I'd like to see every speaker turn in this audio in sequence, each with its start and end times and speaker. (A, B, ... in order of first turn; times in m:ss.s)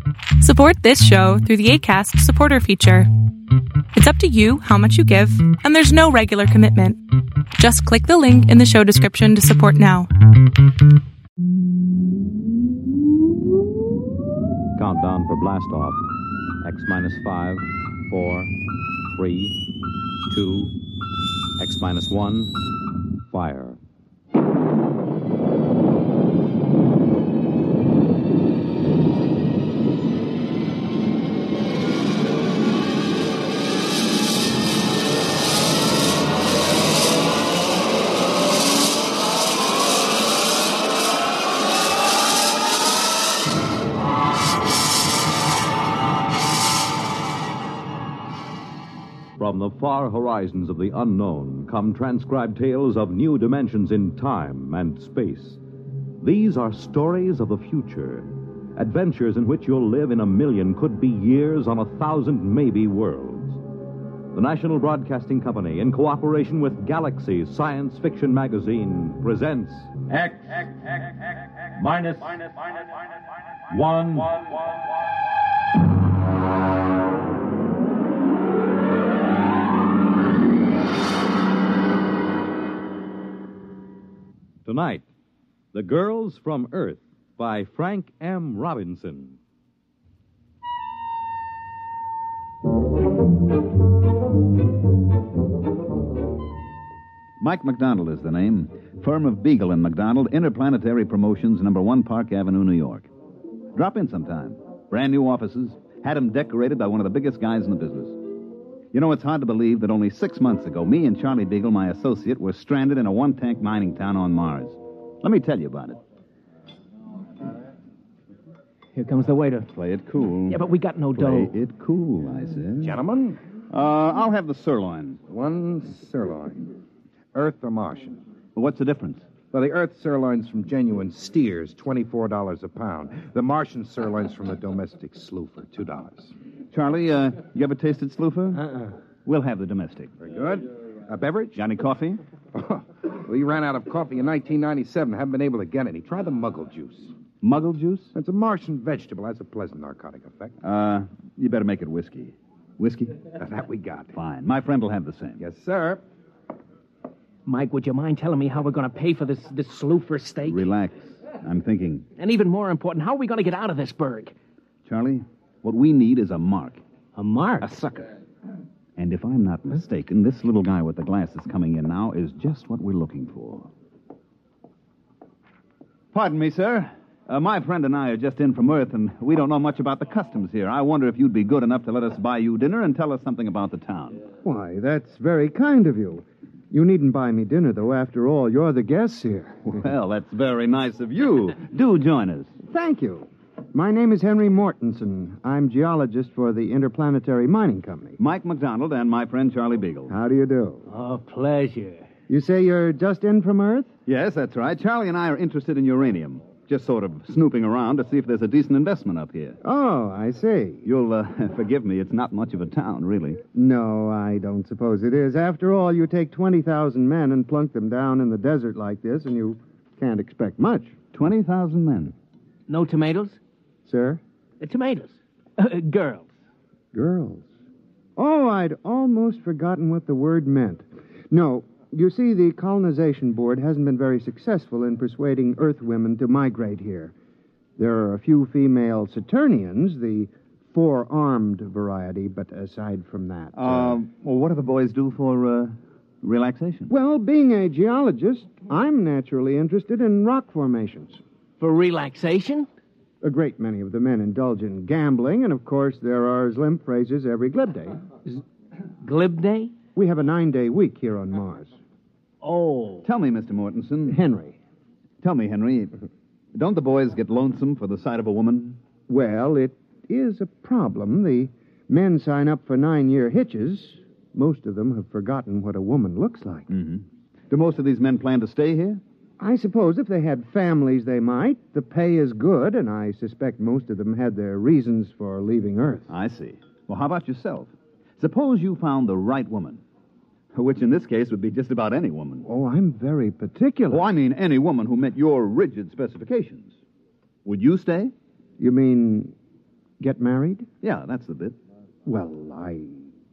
0:00.4-0:03.1 A
0:03.9-0:07.0 A
0:07.6-0:10.1 A
0:14.8-0:16.0 B
0:16.6-0:18.5 B
0:19.1-0:19.6 B
0:20.3-0:20.8 B
0:21.6-0:22.6 B
0:23.3-0:23.8 B
0:49.4-0:55.6 B
0:56.2-1:03.6 B
1:04.3-1:10.8 B
1:11.8-1:12.7 B
1:13.7-1:14.6 B
1:24.6-1:25.0 B
1:25.7-1:29.4 B
1:37.4-1:43.1 C
1:43.7-1:48.2 C
1:48.9-1:56.0 C
1:59.0-1:59.7 D
1:59.7-2:00.6 C
2:00.5-2:01.5 D
2:01.1-2:03.0 C
2:02.8-2:03.4 E
2:03.7-2:05.2 C
2:05.3-2:06.7 E
2:07.3-2:08.2 E
2:08.6-2:09.2 C
2:09.5-2:16.3 E
2:16.7-2:18.6 C
2:19.2-2:20.1 C
2:20.2-2:21.6 E
2:21.6-2:22.2 C
2:22.5-2:27.1 E
2:27.4-2:28.1 C
2:28.1-2:30.5 E
2:30.6-2:33.3 C
2:33.4-2:34.2 E
2:34.2-2:35.4 C
2:35.4-2:36.0 E
2:37.5-2:40.7 D
2:40.5-2:42.0 C
2:42.2-2:44.3 D
2:44.8-2:46.8 C
2:47.2-2:47.7 D
2:47.6-2:48.1 C
2:49.0-2:53.7 C
2:56.1-3:04.2 C
3:04.4-3:09.8 F
3:09.7-3:12.5 C
3:12.7-3:18.2 F
3:18.2-3:20.1 C
3:20.1-3:20.8 F
3:20.9-3:22.1 D
3:22.3-3:23.9 F
3:24.1-3:29.6 C
3:29.6-3:30.8 F
3:30.8-3:33.4 C
3:33.5-3:41.0 F
3:41.1-3:42.2 C
3:42.7-3:43.4 D
3:43.9-3:44.2 F
3:44.6-3:46.3 D
3:46.9-3:47.5 F
3:48.2-3:57.1 F
3:57.8-4:04.0 F
4:03.6-4:06.9 C
4:06.9-4:11.2 F
4:11.6-4:12.7 D
4:13.2-4:18.0 F
4:19.0-4:19.7 D
4:20.0-4:21.7 F
4:22.4-4:23.1 D
4:23.0-4:24.2 C
4:24.1-4:24.6 F
4:25.2-4:25.9 C
4:26.5-4:28.8 C
4:29.1-4:36.7 F
4:36.7-4:39.0 C
4:39.4-4:46.1 F
4:46.1-4:49.8 C
4:50.5-4:52.5 C
4:52.5-4:54.0 F
4:53.9-4:56.7 C
4:57.4-4:58.1 C
4:58.6-4:59.3 F
5:00.0-5:00.7 F
5:00.8-5:01.6 C
5:02.0-5:03.0 F